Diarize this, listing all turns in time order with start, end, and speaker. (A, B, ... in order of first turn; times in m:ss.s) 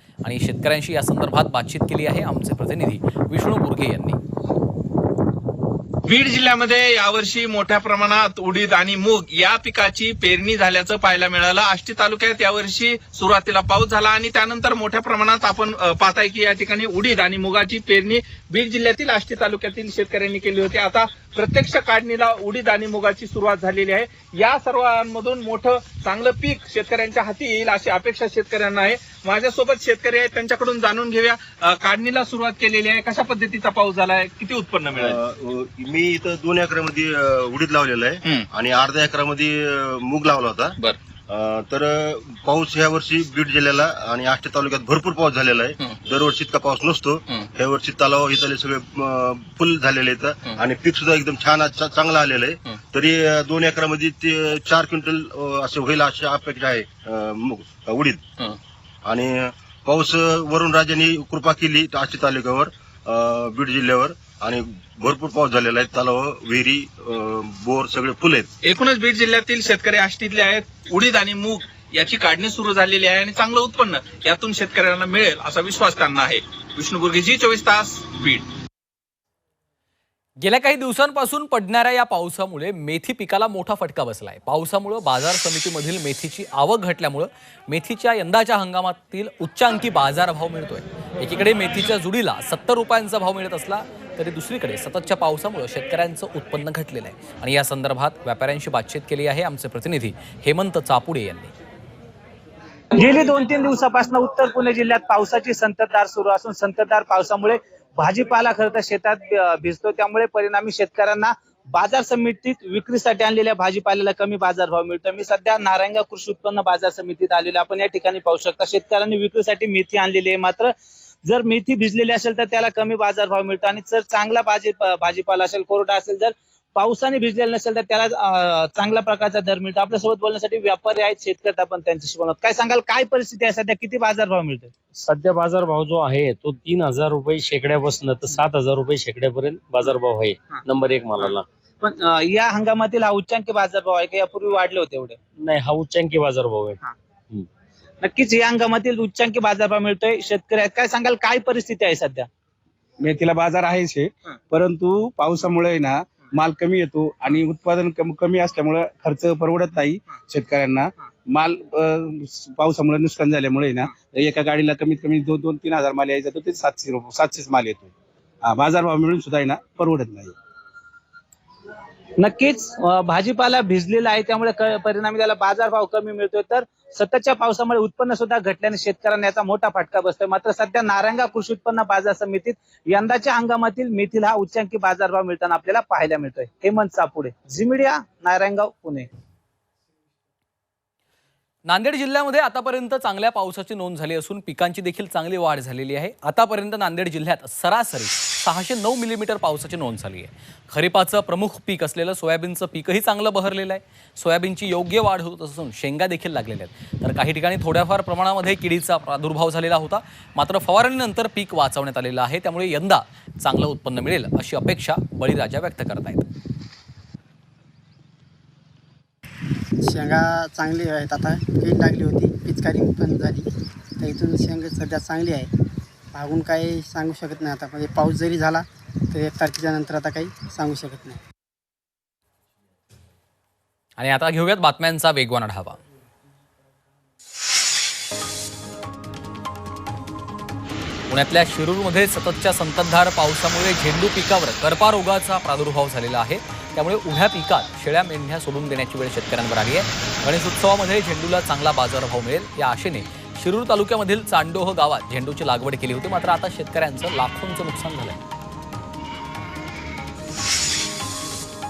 0:00.2-0:04.2 A
0:06.1-0:35.2 B
0:35.0-0:58.2 C
0:59.0-1:08.5 C
1:08.6-1:18.5 B
1:20.4-1:41.5 A
1:43.0-2:00.7 D
2:01.2-2:14.7 D
2:15.0-2:21.4 E
2:21.8-2:25.2 D
2:25.4-2:26.8 E
2:28.0-2:32.3 D
2:33.0-2:47.9 F
2:48.4-2:50.4 F
2:52.2-3:09.1 D
3:11.6-3:36.3 A
3:39.8-3:43.5 G
3:44.0-3:45.5 G
3:46.1-3:51.2 G
3:54.0-3:55.8 A
4:01.1-4:18.2 A